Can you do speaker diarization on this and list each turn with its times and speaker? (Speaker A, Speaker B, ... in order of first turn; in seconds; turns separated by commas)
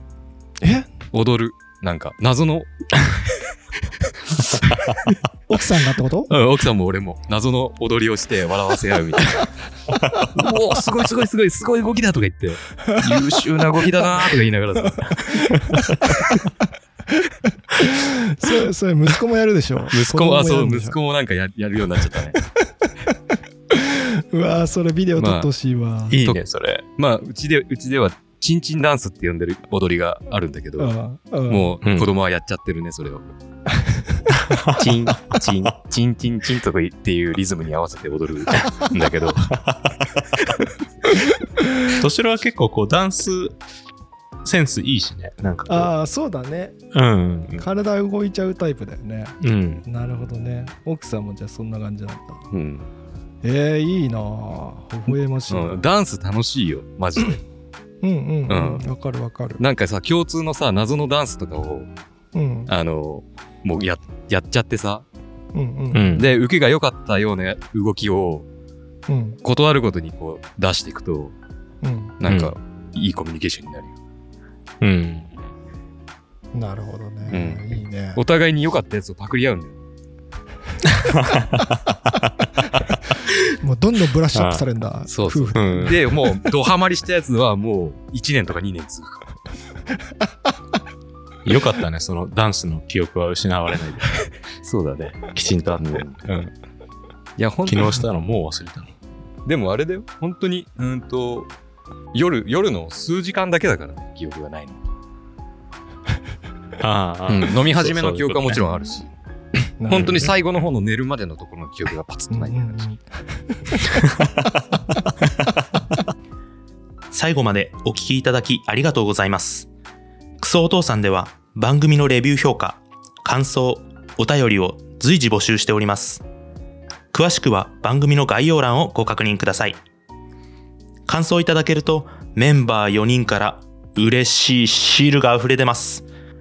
Speaker A: 0.6-0.9, Speaker B: 1.1-2.7, Speaker A: 5.5-6.3, Speaker B: 6.3-9.5, Speaker B: 10.2-15.4, Speaker A: 15.0-16.3, Speaker A: 17.7-21.0, Speaker B: 19.9-22.4, Speaker A: 23.7-26.2, Speaker B: 25.2-25.5, Speaker C: 26.1-26.8, Speaker B: 27.0-30.9, Speaker A: 30.8-31.8, Speaker B: 31.5-33.3, Speaker C: 31.8-32.1, Speaker C: 34.5-35.8, Speaker B: 34.8-39.5, Speaker C: 39.4-40.3, Speaker A: 41.6-41.9, Speaker C: 41.9-43.6, Speaker C: 44.4-45.9, Speaker A: 45.7-46.8, Speaker C: 46.9-47.7, Speaker A: 47.6-52.4, Speaker C: 49.4-49.8, Speaker B: 52.5-52.9, Speaker A: 53.4-55.8, Speaker B: 55.5-57.4, Speaker A: 58.0-59.6, Speaker B: 58.5-58.8, Speaker B: 59.6-61.9, Speaker A: 62.3-62.7, Speaker B: 62.7-65.0, Speaker A: 65.5-66.2, Speaker C: 65.9-66.3, Speaker B: 66.1-68.5, Speaker A: 69.1-69.4, Speaker B: 69.4-71.3, Speaker A: 71.8-72.2, Speaker B: 72.2-73.9, Speaker C: 72.2-72.5, Speaker C: 74.8-75.3, Speaker A: 76.5-78.2, Speaker B: 77.3-79.8, Speaker C: 80.8-82.7, Speaker A: 83.6-86.0, Speaker C: 84.3-84.6, Speaker B: 85.1-89.3, Speaker C: 85.5-86.0, Speaker C: 91.5-94.1, Speaker B: 94.6-95.3, Speaker C: 95.3-96.5, Speaker B: 95.8-96.2, Speaker B: 97.4-98.0, Speaker C: 97.7-98.9, Speaker B: 99.5-101.5, Speaker B: 102.1-104.8, Speaker C: 106.8-108.6, Speaker B: 107.3-109.1, Speaker A: 109.8-110.3, Speaker B: 109.9-112.9, Speaker C: 109.9-110.3, Speaker A: 112.3-113.5, Speaker D: 117.1-119.7, Speaker D: 120.4-126.2, Speaker D: 127.1-129.8, Speaker D: 131.1-136.1